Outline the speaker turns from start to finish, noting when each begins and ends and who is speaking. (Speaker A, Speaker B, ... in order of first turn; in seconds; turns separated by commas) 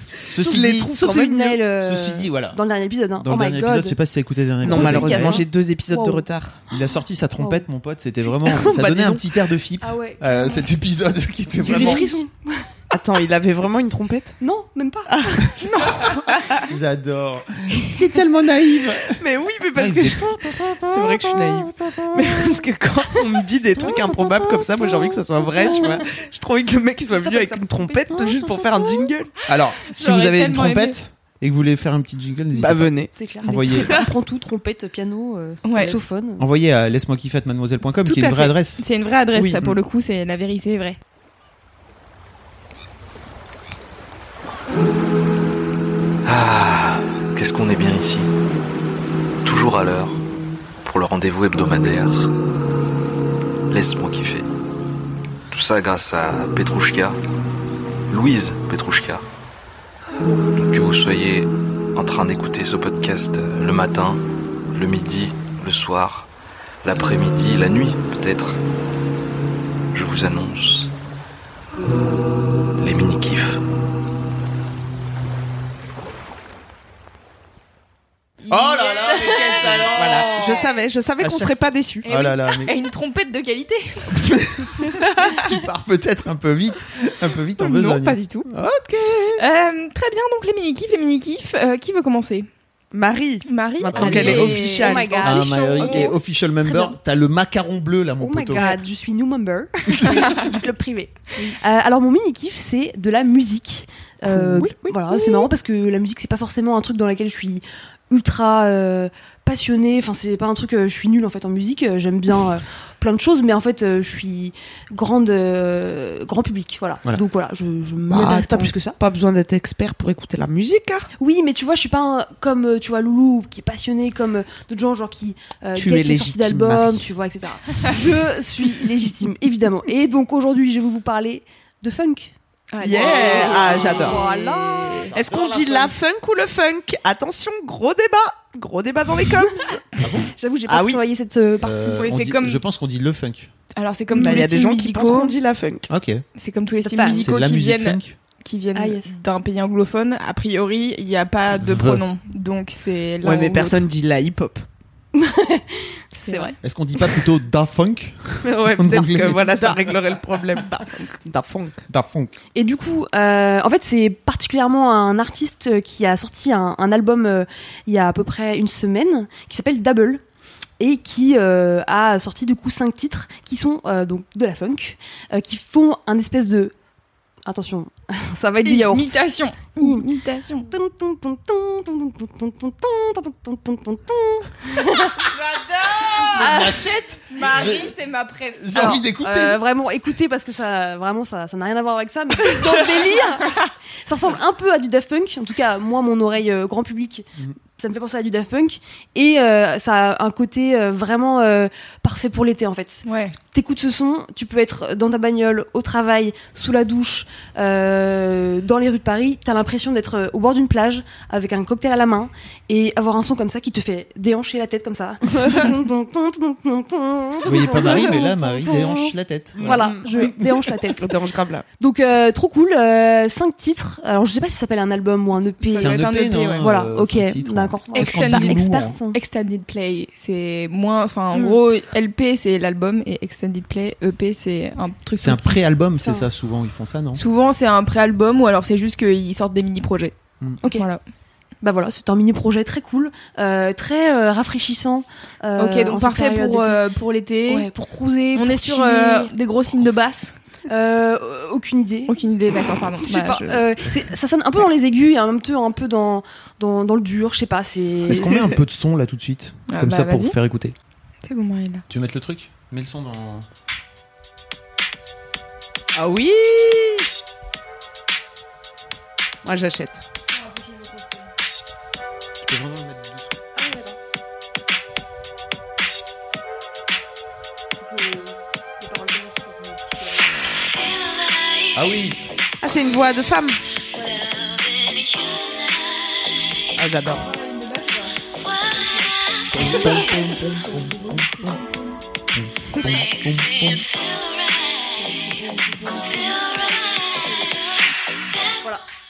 Speaker A: 0.3-0.9, Speaker B: 0.4-1.6, Speaker C: 0.5-4.0, Speaker A: 1.8-2.6, Speaker A: 3.2-5.5, Speaker C: 4.6-6.2, Speaker B: 4.6-6.6, Speaker A: 6.7-12.2, Speaker C: 7.4-7.6, Speaker B: 8.4-9.2, Speaker C: 9.8-10.7, Speaker C: 11.6-12.7, Speaker B: 12.9-14.4, Speaker C: 14.4-15.6, Speaker B: 15.1-15.5, Speaker D: 15.6-16.2, Speaker A: 16.6-19.2, Speaker B: 19.2-29.3, Speaker A: 19.7-21.2, Speaker C: 25.5-26.1, Speaker C: 27.1-29.1, Speaker A: 29.5-34.0, Speaker D: 29.9-31.0, Speaker B: 32.5-33.1, Speaker C: 33.1-36.5, Speaker D: 35.6-36.0, Speaker A: 36.4-38.8, Speaker D: 38.0-41.0, Speaker B: 39.3-39.7, Speaker E: 46.2-48.3, Speaker E: 49.4-50.2, Speaker E: 50.8-52.3, Speaker E: 53.7-54.5, Speaker E: 55.5-57.2, Speaker E: 58.1-59.2, Speaker E: 60.5-66.3, Speaker E: 66.8-68.6, Speaker E: 69.9-70.9, Speaker E: 72.8-73.6, Speaker D: 78.4-79.8, Speaker A: 78.5-80.7, Speaker B: 79.8-82.0, Speaker A: 81.2-82.7, Speaker D: 82.0-84.1, Speaker A: 84.1-89.4, Speaker D: 87.6-88.5, Speaker D: 89.4-92.5, Speaker B: 92.9-95.8, Speaker D: 93.5-96.0, Speaker A: 93.9-98.7, Speaker C: 94.2-96.9, Speaker C: 98.2-118.9, Speaker A: 99.9-100.3, Speaker B: 104.3-105.2, Speaker B: 118.1-121.1, Speaker C: 121.2-132.3, Speaker B: 125.8-127.1, Speaker D: 132.7-135.1, Speaker B: 132.8-134.2, Speaker C: 133.0-135.1, Speaker B: 135.1-139.8, Speaker A: 135.2-135.9, Speaker A: 140.0-140.3, Speaker C: 140.3-142.1, Speaker B: 140.7-141.0, Speaker A: 141.6-143.5, Speaker D: 141.9-142.6, Speaker D: 143.8-145.3, Speaker C: 144.1-144.4, Speaker B: 144.1-145.9, Speaker A: 145.9-146.2, Speaker D: 146.3-153.8, Speaker C: 146.8-147.3, Speaker A: 147.1-148.2, Speaker C: 148.7-149.1, Speaker A: 151.5-152.0, Speaker B: 153.2-154.6, Speaker C: 155.1-156.6, Speaker D: 156.2-156.5, Speaker A: 156.6-160.2, Speaker B: 158.4-161.8, Speaker A: 161.9-162.3, Speaker C: 162.5-170.2, Speaker C: 170.8-176.7, Speaker C: 177.4-180.0, Speaker D: 178.6-180.7, Speaker C: 180.7-185.3, Speaker D: 185.3-189.0, Speaker A: 186.1-187.9, Speaker C: 186.2-186.8, Speaker A: 188.6-189.6, Speaker C: 188.8-221.1, Speaker D: 203.0-203.3, Speaker B: 215.3-215.7, Speaker A: 217.4-220.7, Speaker B: 217.5-218.1, Speaker B: 219.5-220.1, Speaker B: 221.0-221.7, Speaker C: 221.8-229.2, Speaker D: 225.6-226.7, Speaker A: 225.8-229.0, Speaker D: 227.9-235.6, Speaker C: 231.3-231.6, Speaker A: 235.2-237.2, Speaker C: 236.0-236.3, Speaker D: 237.2-241.0, Speaker C: 240.6-240.9, Speaker C: 241.6-246.8, Speaker D: 245.6-247.7, Speaker C: 247.5-249.3, Speaker D: 248.3-250.3, Speaker C: 250.7-252.2, Speaker D: 252.1-253.6, Speaker C: 252.7-258.3, Speaker A: 258.1-260.8, Speaker D: 259.7-260.4, Speaker D: 261.2-261.8, Speaker A: 261.9-263.5, Speaker B: 265.9-267.1, Speaker B: 269.4-270.0, Speaker C: 270.3-271.2, Speaker A: 272.4-273.4, Speaker C: 273.5-274.0, Speaker C: 277.8-280.4, Speaker A: 281.7-282.2, Speaker B: 282.6-283.6, Speaker C: 284.0-284.3, Speaker B: 286.8-287.2, Speaker D: 287.2-288.1, Speaker A: 289.5-291.6, Speaker D: 290.5-291.6, Speaker A: 292.3-293.8, Speaker C: 295.0-297.6